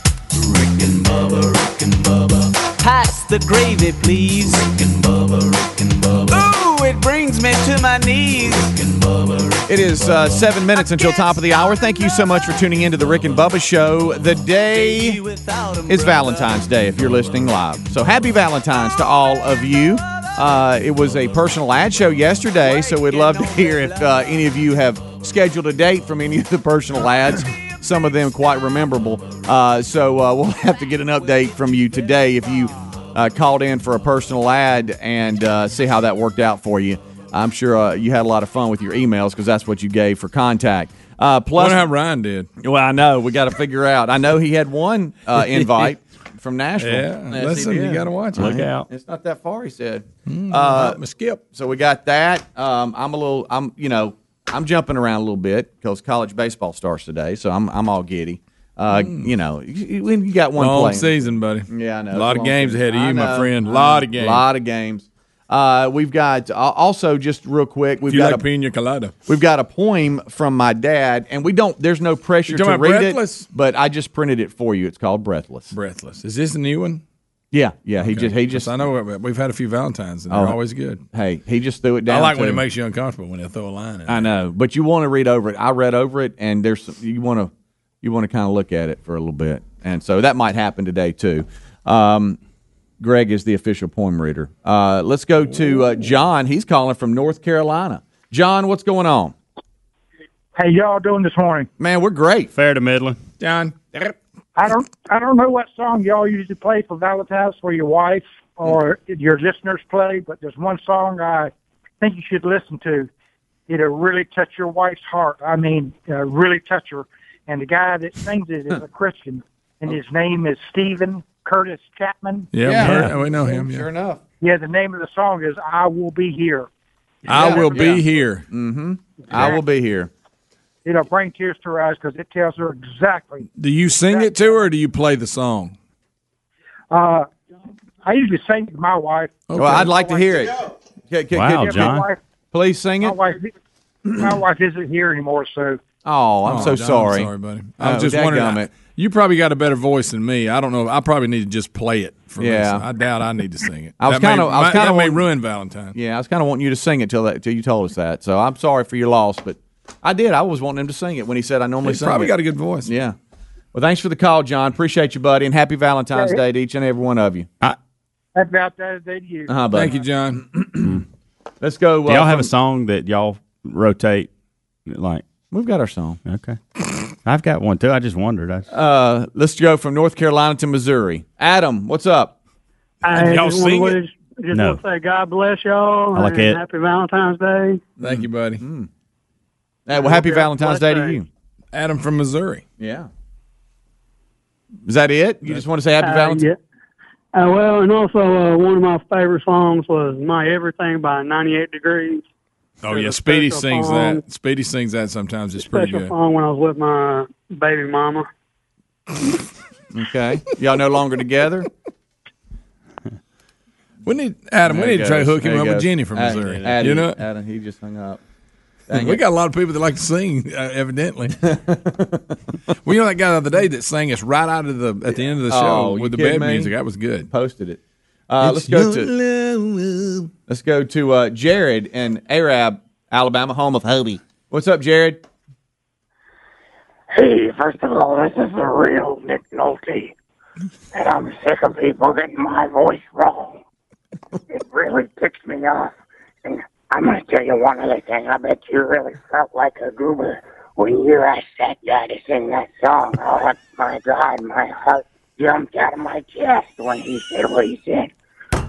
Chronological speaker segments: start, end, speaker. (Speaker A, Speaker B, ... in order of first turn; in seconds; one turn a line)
Speaker A: 0.6-1.9
Speaker A: 2.8-9.6
Speaker B: 9.7-15.2
Speaker A: 14.6-16.5
Speaker B: 15.9-41.9
Speaker A: 22.6-24.2
Speaker C: 41.5-42.5
Speaker B: 42.6-68.5
Speaker C: 46.8-48.8
Speaker C: 50.3-51.4
Speaker C: 58.9-59.3
Speaker C: 60.5-64.4
Speaker C: 68.1-69.1
Speaker B: 69.3-75.7
Speaker C: 72.5-73.5
Speaker C: 75.7-77.0
Speaker B: 77.5-78.8
Speaker C: 78.0-81.0
Speaker B: 80.3-80.6
Speaker B: 81.1-82.6
Speaker C: 82.1-84.3
Speaker B: 84.1-87.5
Speaker B: 88.0-92.4
Speaker B: 93.0-99.3
Speaker D: 100.5-101.7
Speaker B: 101.8-102.5
Speaker E: 102.5-103.2
Speaker C: 103.4-103.8
Speaker D: 104.5-113.1
Speaker D: 113.7-122.5
Speaker C: 122.5-123.9
Speaker B: 122.6-124.2
Speaker E: 122.8-123.1
Speaker D: 124.4-126.7
Speaker C: 127.2-128.4
Speaker B: 127.3-130.1
Speaker D: 127.3-128.0
Speaker D: 130.8-133.5
Speaker C: 133.5-135.7
Speaker D: 134.1-134.6
Speaker D: 136.9-137.3
Speaker D: 138.0-140.2
Speaker C: 139.5-140.0
Speaker B: 139.5-142.0
Speaker E: 141.3-142.1
Speaker D: 141.5-142.2
Speaker B: 142.5-143.2
Speaker D: 143.0-143.5
Speaker D: 144.1-145.8
Speaker B: 146.0-148.7
Speaker C: 146.4-155.9
Speaker B: 152.4-152.8
Speaker B: 154.0-155.3
Speaker B: 155.9-163.2
Speaker C: 161.8-162.9
Speaker B: 163.7-167.5
Speaker D: 166.1-166.4
Speaker D: 168.3-169.5
Speaker B: 169.5-170.0
Speaker C: 169.7-170.5
Speaker B: 170.5-171.0
Speaker B: 171.6-172.5
Speaker E: 172.1-174.3
Speaker E: 174.9-175.2
Speaker B: 175.5-176.2
Speaker E: 176.2-176.6
Speaker E: 177.2-178.7
Speaker B: 178.7-182.3
Speaker F: 183.0-187.8
Speaker C: 183.1-184.0
Speaker E: 184.5-184.8
Speaker E: 186.1-186.6
Speaker C: 188.0-188.6
Speaker B: 188.0-188.9
Speaker B: 189.9-191.3
Speaker F: 189.9-191.2
Speaker C: 191.7-192.6
Speaker B: 192.8-193.1
Speaker B: 194.8-196.4
Speaker F: 196.0-196.6
Speaker F: 197.3-202.2
Speaker C: 202.8-206.1
Speaker F: 202.8-204.2
Speaker F: 205.6-208.3
Speaker B: 209.9-211.7
Speaker C: 214.0-217.2
Speaker B: 214.6-218.2
Speaker B: 218.9-219.2
Speaker C: 218.9-221.4
Speaker B: 221.4-222.3
Speaker C: 222.8-227.3
Speaker B: 225.1-226.7
Speaker B: 227.3-229.1
Speaker A: 228.6-229.7
Speaker B: 230.5-235.2
Speaker G: 237.1-240.1
Speaker G: 240.9-243.6
Speaker G: 244.5-258.1